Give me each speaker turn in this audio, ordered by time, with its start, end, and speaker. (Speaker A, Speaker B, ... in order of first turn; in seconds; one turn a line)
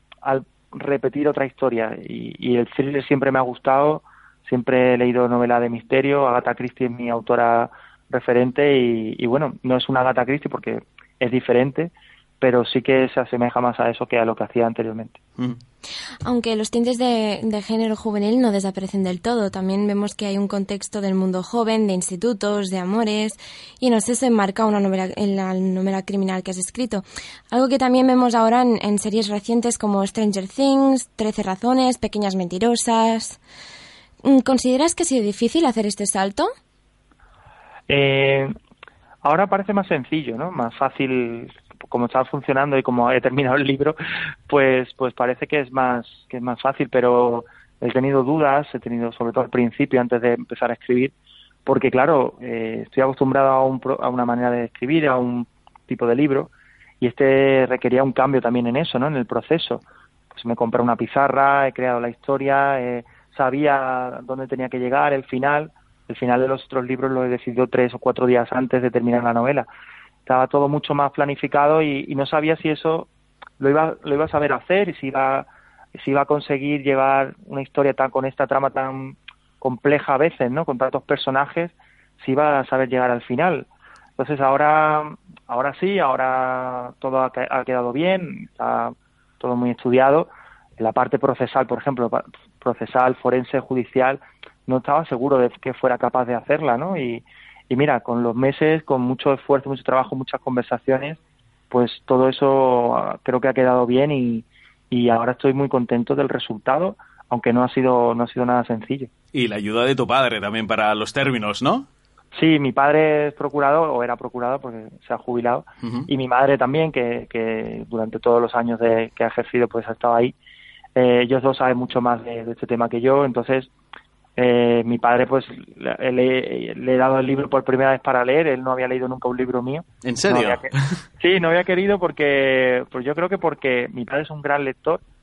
Speaker A: 0.2-15.2
Speaker B: 16.3-33.4
Speaker B: 34.2-36.5
Speaker A: 37.9-38.5
Speaker A: 39.2-44.0
Speaker A: 44.5-51.1
Speaker A: 51.7-56.5
Speaker A: 57.0-69.7
Speaker A: 70.3-73.1
Speaker A: 73.6-101.2
Speaker A: 101.7-109.1
Speaker C: 109.3-111.9
Speaker A: 112.3-120.3
Speaker C: 115.8-116.1
Speaker A: 121.0-123.7
Speaker A: 124.4-130.7
Speaker C: 130.0-130.8
Speaker A: 131.2-135.0